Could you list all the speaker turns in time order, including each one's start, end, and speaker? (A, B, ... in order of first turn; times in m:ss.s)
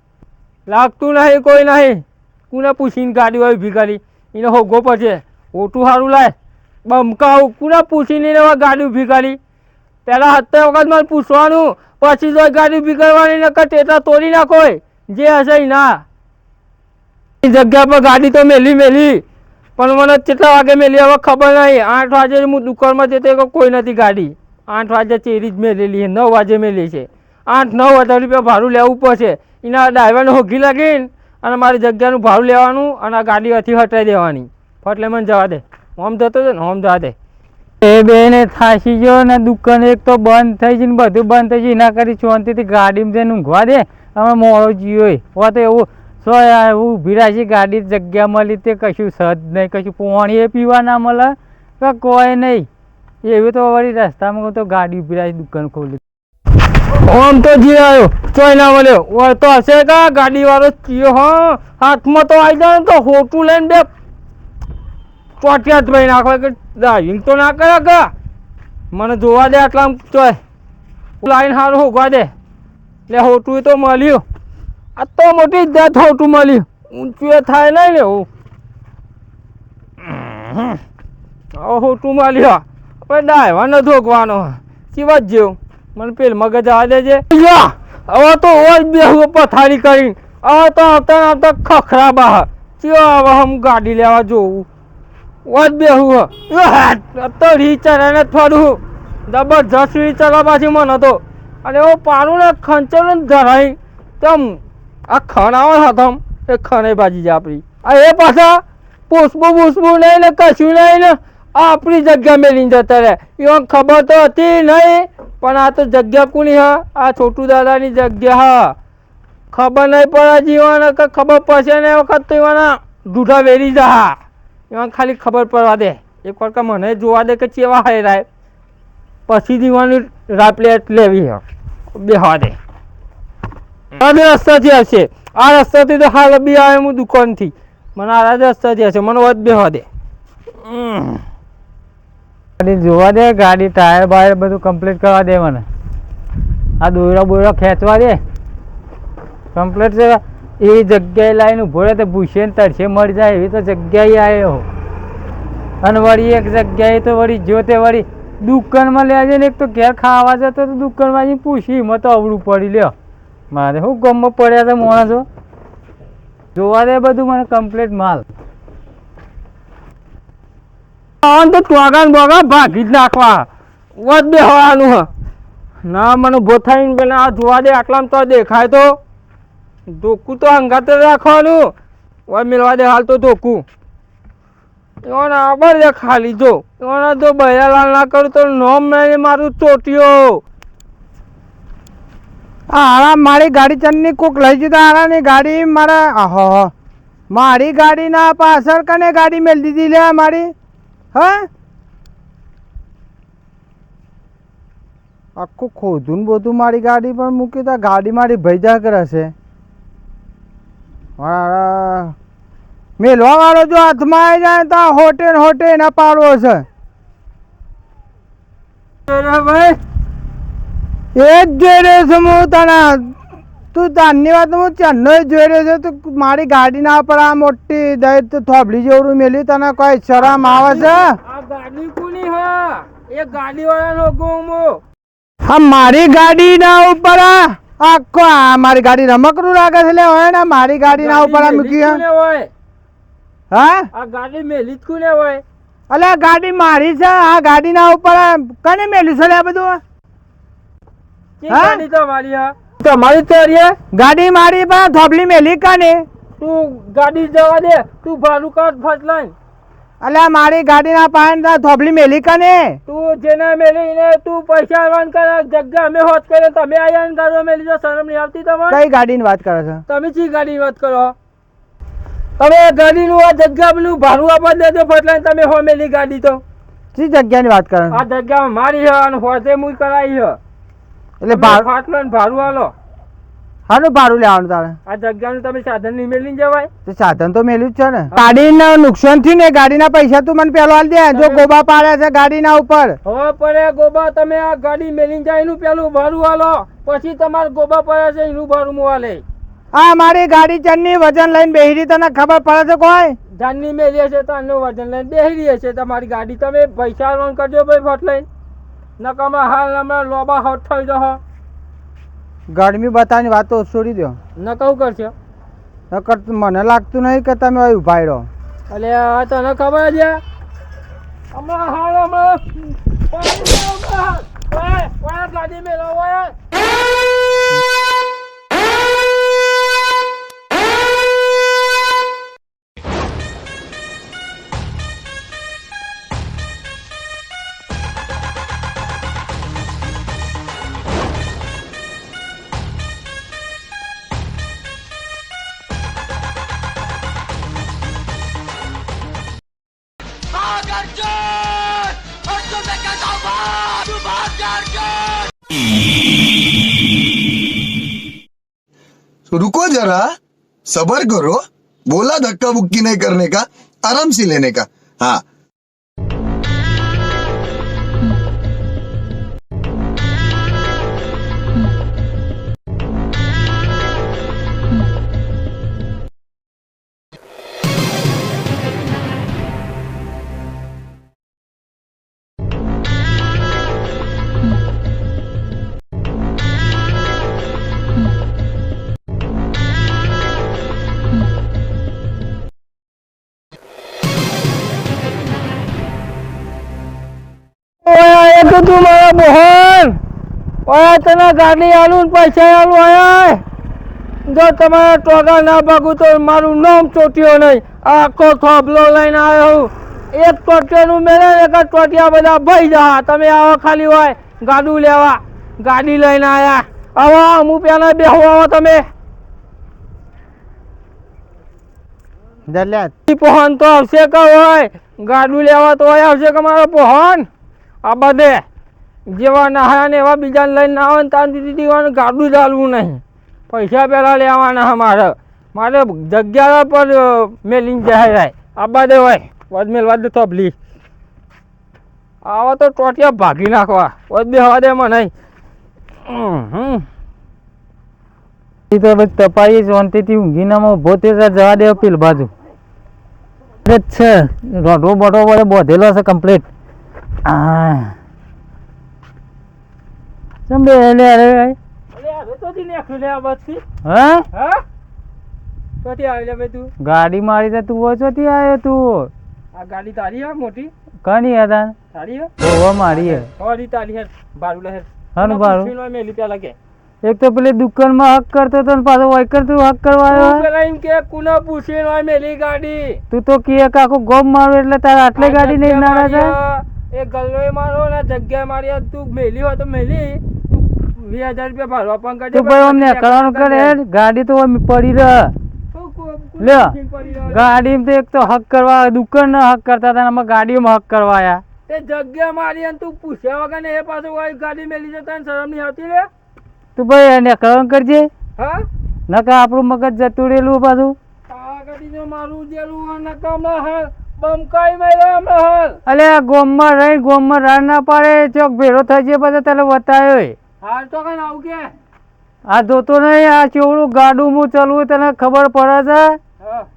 0:00.7-0:06.3 A
0:06.8-0:09.4 A
0:10.0-0:16.0 A
0:17.4-0:19.2 A
0:19.8-0:37.1 A
0:37.8-0:52.7 B
0:53.2-0:56.0 B
0:56.9-1:03.9 A
1:05.4-1:08.1 A
1:08.9-1:10.4 A
1:11.2-1:12.3 A
1:13.1-1:14.2 A
1:15.0-1:18.3 A
1:20.0-1:20.8 A
1:21.6-1:34.7 A
1:35.4-1:58.7 A
1:59.5-2:04.2 A
2:04.7-2:08.2 A
2:09.3-2:11.4 A
2:11.9-2:12.6 A
2:14.0-2:19.8 A
2:20.6-2:21.2 A
2:22.6-2:25.6 B
2:26.8-2:28.2 B
2:29.5-2:34.6 B
2:35.8-2:42.9 B
2:43.5-2:45.2 B
2:46.5-2:48.2 B
2:51.2-2:55.1 A
2:55.8-2:58.9 A
3:00.0-3:01.7 A
3:02.3-3:03.6 A
3:05.0-3:10.4 A
3:12.7-3:16.7 C
3:17.3-3:20.5 C
3:21.1-3:21.4 C
3:25.4-3:29.3 C
3:31.2-3:32.1 C
3:33.0-3:36.6 C
3:39.1-3:39.8 A
3:41.1-3:43.1 C
3:43.7-3:51.2 C
3:50.6-3:54.8 A
3:55.4-4:02.0 C
4:00.9-4:02.5 A
4:03.5-4:03.9 C
4:03.9-4:05.4 A
4:05.9-4:09.8 C
4:11.4-4:13.7 A
4:11.5-4:11.8 C
4:13.9-4:16.0 C
4:16.4-4:19.3 A
4:20.0-4:22.7 C
4:22.9-4:28.8 A
4:28.7-4:29.8 C
4:29.9-4:31.1 A
4:32.4-4:36.4 A
4:36.9-4:38.0 C
4:37.9-4:40.4 A
4:41.2-4:41.6 C
4:41.3-4:42.7 A
4:43.7-4:44.7 C
4:44.9-4:46.7 A
4:46.8-4:53.0 C
4:51.1-4:51.5 A
4:53.0-4:59.2 A
4:59.7-5:03.1 C
5:03.4-5:08.2 A
5:09.0-5:11.2 A
5:12.5-5:14.2 C
5:14.4-5:15.1 A
5:15.9-5:18.3 C
5:18.7-5:20.2 A
5:21.3-5:26.3 A
5:59.3-6:00.1 D
6:00.7-6:05.2 D
6:37.8-6:40.0 A
6:40.7-6:43.4 A
6:44.3-6:58.8 A
7:02.5-7:02.9 C
7:03.1-7:07.3 A
7:07.8-7:08.4 A
7:09.1-7:20.5 A
7:22.2-7:25.1 A
7:26.1-7:26.8 A
7:28.7-7:32.3 B
7:33.6-7:36.4 B
7:37.2-7:37.9 B
7:40.5-7:41.6 B
7:41.9-7:43.6 A
7:43.8-7:44.3 B
7:44.3-7:44.6 A
7:45.8-7:46.7 A
7:46.8-7:49.1 B
7:49.5-7:50.7 A
7:51.0-7:51.7 B
7:51.9-7:52.3 A
7:52.4-7:53.3 B
7:52.9-7:56.5 A
7:55.1-7:55.7 B
7:57.0-8:00.4 B
8:00.1-8:03.0 A
8:03.1-8:06.3 B
8:05.2-8:13.7 A
8:12.3-8:15.3 B
8:15.7-8:17.4 A
8:16.4-8:16.7 B
8:17.3-8:21.4 B
8:21.7-8:26.1 A
8:26.8-8:28.1 B
8:28.4-8:28.6 A
8:29.1-8:31.0 B
8:31.3-8:35.8 A
8:35.8-8:40.3 B
8:40.6-8:41.7 A
8:42.5-8:46.2 B
8:46.4-8:46.7 A